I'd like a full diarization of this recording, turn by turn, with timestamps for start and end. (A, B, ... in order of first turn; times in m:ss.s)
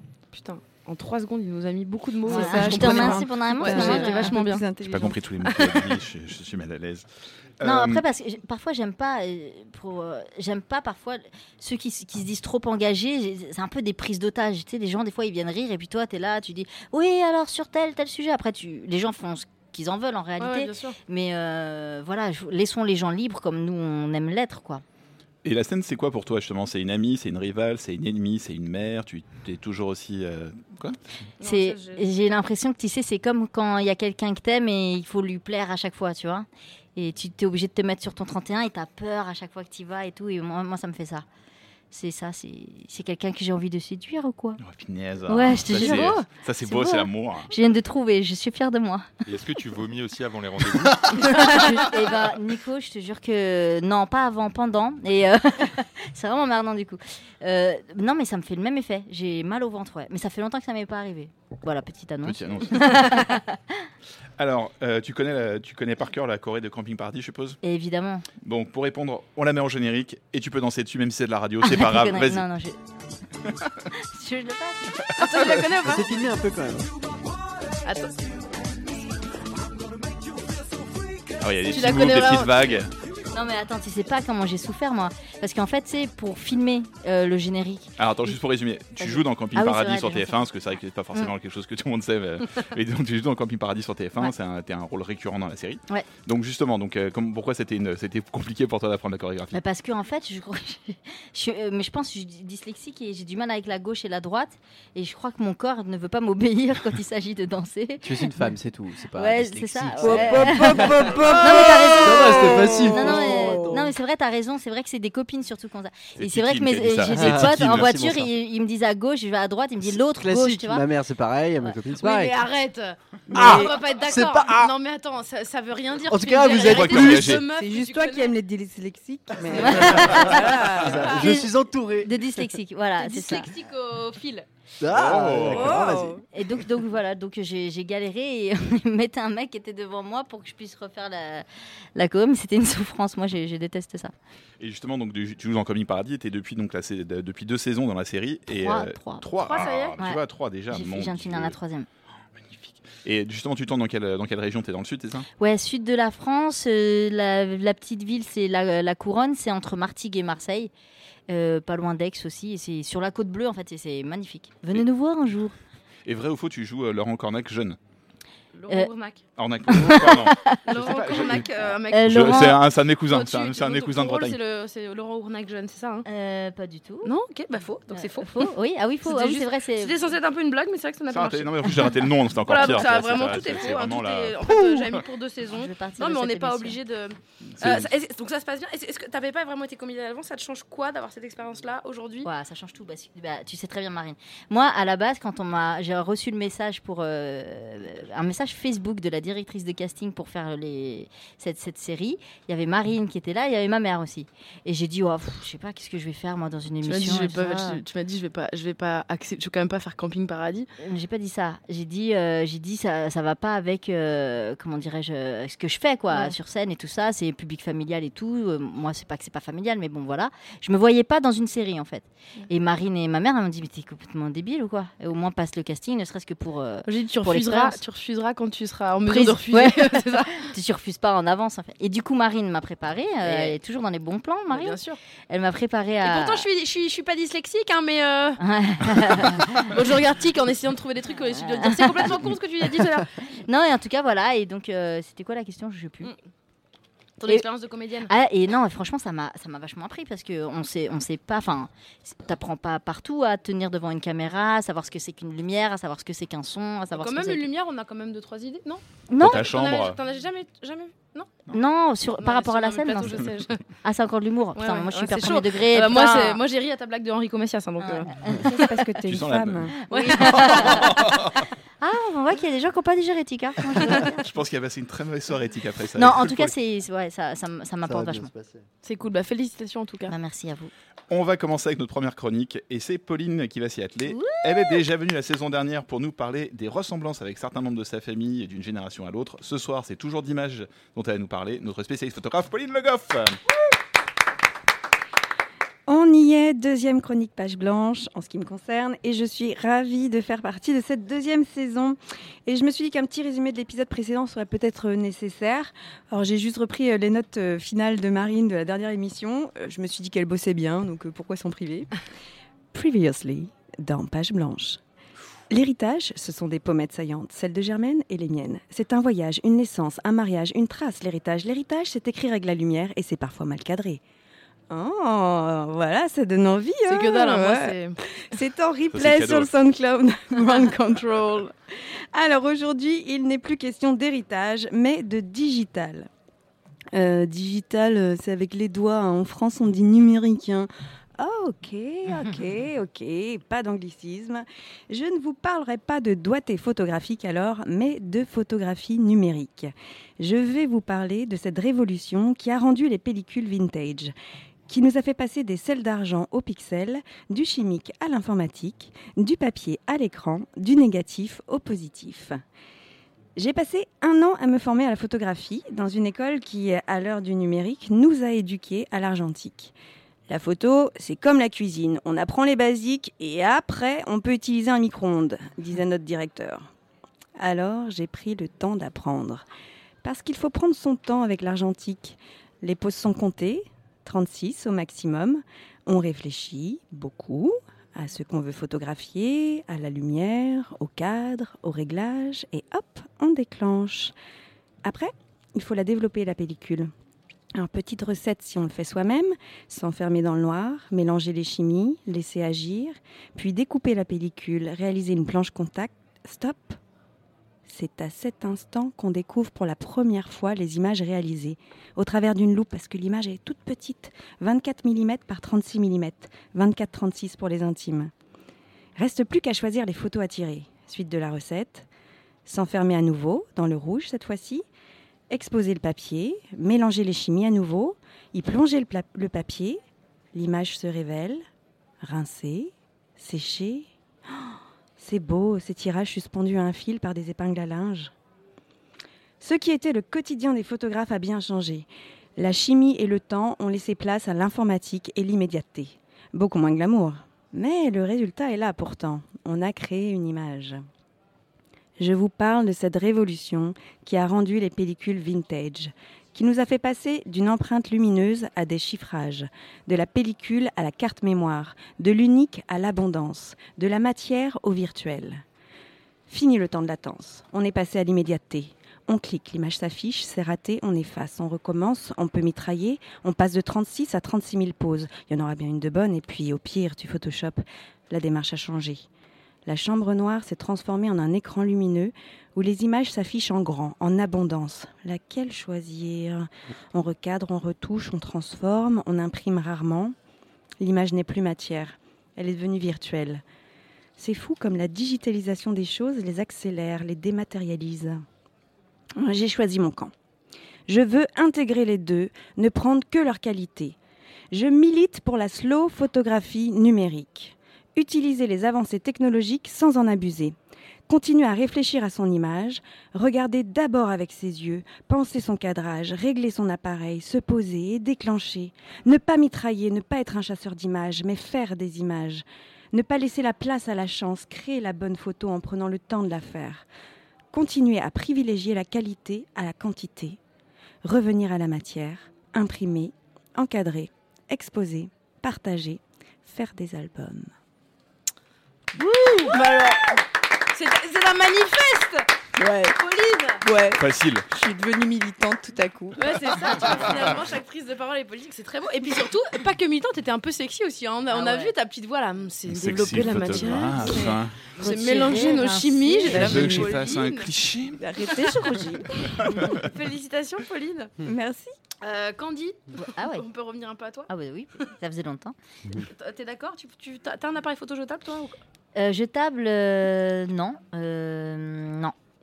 0:00.3-0:04.6 A
0:02.2-0:05.2 B
0:02.3-0:04.4 C
0:04.8-0:07.1 D
0:07.6-0:08.0 D
0:07.6-0:24.8 C
0:20.4-0:21.0 A
0:25.4-0:31.0 D
0:31.4-0:32.0 A
0:31.4-0:41.2 C
0:41.9-0:44.6 C
0:44.6-0:47.5 D
0:45.3-0:49.1 C
0:45.8-0:46.2 A
0:49.3-0:51.8 E
0:51.2-1:03.9 C
1:02.2-1:03.0 D
1:04.4-1:07.6 D
1:07.6-1:08.3 C
1:08.4-1:12.4 D
1:11.6-1:12.8 C
1:14.0-1:15.1 C
1:15.2-1:16.1 A
1:15.8-1:16.9 F
1:17.8-1:18.1 A
1:21.4-1:22.9 D
1:21.7-1:22.8 A
1:23.3-1:28.0 C
1:28.0-1:39.6 D
1:29.0-1:30.4 C
1:39.5-1:48.4 C
1:48.0-1:53.9 F
1:49.1-2:00.8 C
1:50.0-1:53.7 B
1:56.2-1:58.1 D
1:57.1-1:58.2 F
2:00.0-2:02.4 F
2:02.0-2:08.4 A
2:03.3-2:03.7 B
2:03.3-2:04.7 F
2:06.1-2:07.3 F
2:06.7-2:07.4 D
2:07.4-2:11.1 B
2:09.6-2:10.4 C
2:09.7-2:12.2 F
2:11.2-2:13.5 C
2:13.0-2:14.4 A
2:14.8-2:16.2 F
2:14.9-2:15.8 D
2:15.4-2:16.2 B
2:16.3-2:21.4 C
2:22.0-2:24.1 C
2:24.6-2:31.6 D
2:28.5-2:29.3 C
2:29.4-2:30.0 A
2:30.7-2:31.9 C
2:32.4-2:35.2 D
2:35.4-2:40.7 C
2:41.3-2:45.6 C
2:46.0-2:47.8 D
2:48.5-2:49.2 A
2:49.4-2:54.4 D
2:49.7-2:50.6 C
2:50.7-2:56.1 A
2:51.9-2:52.6 C
2:56.0-2:57.1 C
2:57.0-3:12.3 A
2:57.9-3:00.0 C
3:01.1-3:05.0 D
3:05.5-3:06.8 C
3:07.6-3:07.9 D
3:12.2-3:27.8 C
3:26.8-3:30.7 A
3:30.8-3:47.8 C
3:46.9-3:50.5 A
3:49.0-3:54.8 C
3:53.2-3:53.6 A
3:54.5-3:55.0 A
3:55.3-3:56.4 C
3:56.0-3:58.4 A
3:58.4-3:59.7 C
3:59.1-4:03.1 A
4:01.4-4:02.2 C
4:03.4-4:06.1 C
4:07.2-4:08.1 A
4:08.1-4:17.4 C
4:17.0-4:21.3 A
4:19.1-4:19.4 C
4:19.2-4:20.0 D
4:21.5-4:23.2 C
4:22.2-4:23.6 A
4:23.8-4:26.4 C
4:24.6-4:28.2 A
4:27.8-4:28.5 C
4:28.5-4:29.8 B
4:29.1-4:31.4 D
4:29.8-4:30.9 C
4:29.9-4:30.9 A
4:31.8-4:34.2 C
4:34.2-4:36.5 D
4:36.0-4:38.3 C
4:37.8-4:38.6 F
4:38.8-4:40.1 A
4:40.1-4:40.7 C
4:41.1-4:53.4 D
4:44.0-4:44.8 C
4:55.9-5:11.9 B
5:12.7-5:14.8 B
5:15.5-5:24.0 B
5:24.7-5:27.8 B
5:26.9-5:28.0 A
5:28.3-5:31.5 B
5:28.9-5:29.5 D
5:32.1-5:36.1 B
5:36.9-5:54.1 B
5:54.7-6:02.4 B
6:03.4-6:09.7 B
6:10.3-6:16.7 B
6:17.4-6:19.4 B
6:20.0-6:34.1 B
6:34.8-6:36.9 B
6:37.5-6:46.8 B
6:47.7-6:58.1 B
6:59.0-7:01.9 B
7:02.4-7:04.6 B
7:05.3-7:09.8 B
7:10.3-7:11.4 B
7:12.0-7:18.1 B
7:19.4-7:30.8 B
7:32.0-7:45.4 B
7:46.3-7:59.1 B
7:59.6-8:10.1 B
8:10.8-8:13.4 B
8:14.2-8:18.2 B
8:19.2-8:20.1 B
8:20.9-8:24.0 B
8:24.5-8:30.5 B
8:31.1-8:46.9 B
8:47.5-8:50.4 B
8:51.0-8:57.5 B
8:59.0-9:00.1 B
8:59.5-8:59.9 A
9:00.7-9:02.3 A
9:02.6-9:03.0 B
9:02.8-9:03.6 A
9:03.6-9:06.7 B
9:03.9-9:04.4 D
9:06.2-9:17.5 A
9:11.3-9:11.7 C
9:12.7-9:14.6 D
9:14.8-9:16.6 C
9:16.3-9:18.0 D
9:18.0-9:19.5 B
9:18.4-9:18.7 A
9:19.3-9:21.1 A
9:21.2-9:21.7 B
9:22.0-9:24.3 A
9:23.0-9:23.4 C
9:24.3-9:25.5 C
9:26.0-9:28.6 A
9:29.0-9:32.1 C